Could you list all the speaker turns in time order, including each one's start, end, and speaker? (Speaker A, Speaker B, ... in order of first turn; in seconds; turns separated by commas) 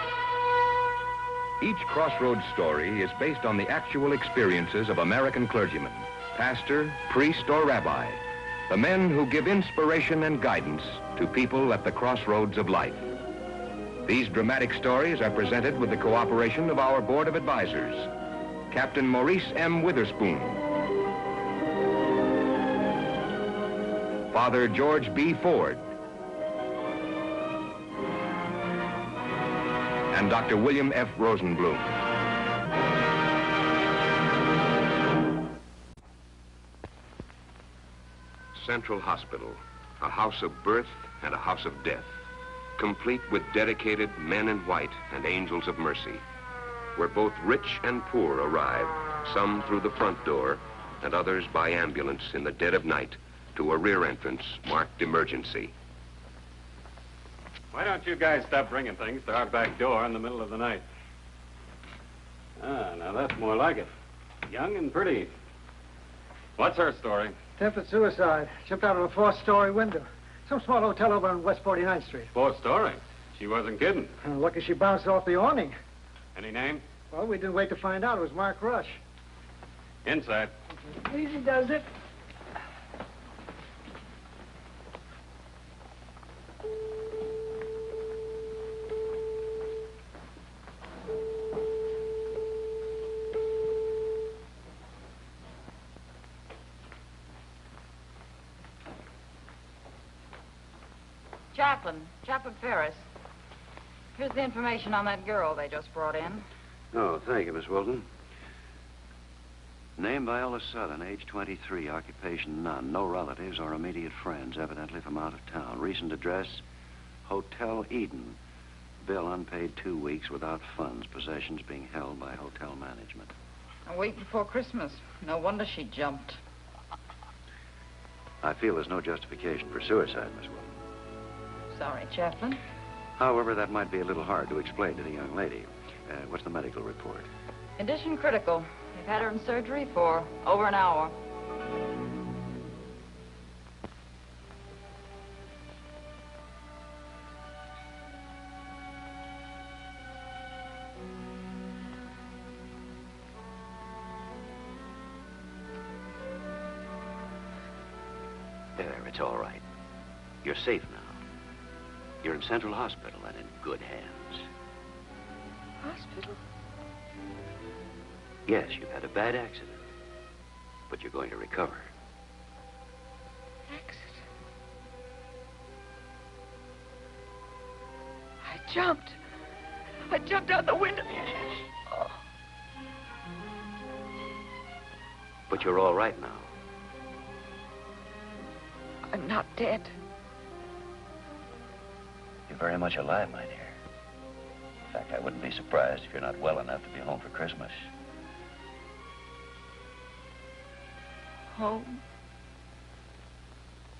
Speaker A: 1.6-13.1, Speaker A: 14.1-18.1, Speaker A: 18.7-20.6, Speaker A: 24.3-25.8, Speaker A: 30.1-31.9, Speaker A: 38.5-42.2, Speaker A: 42.8-46.2, Speaker A: 46.9-55.7, Speaker B: 57.7-60.8, Speaker B: 62.6-63.9, Speaker B: 64.5-65.3, Speaker B: 66.6-67.3, Speaker C: 67.6-72.3, Speaker B: 72.3-74.1, Speaker C: 74.2-75.7, Speaker B: 76.3-76.9, Speaker C: 77.0-79.0, Speaker B: 80.0-80.5, Speaker C: 81.0-81.8, Speaker D: 101.5-103.0, Speaker D: 104.1-106.4, Speaker E: 106.9-108.0, Speaker E: 110.0-116.6, Speaker E: 117.2-118.4, Speaker E: 119.0-123.3, Speaker D: 123.8-126.4, Speaker E: 128.4-130.7, Speaker D: 131.7-132.6, Speaker E: 133.2-137.3, Speaker D: 137.8-141.1, Speaker E: 158.8-159.6, Speaker E: 160.4-161.2, Speaker E: 162.2-164.5, Speaker F: 165.8-166.4, Speaker E: 168.4-169.8, Speaker E: 170.9-171.9, Speaker F: 173.7-174.2, Speaker F: 178.4-179.2, Speaker F: 180.1-181.2, Speaker F: 181.9-182.2, Speaker E: 185.5-186.5, Speaker F: 189.1-189.9, Speaker E: 192.5-193.8, Speaker E: 194.9-197.9, Speaker F: 201.5-202.0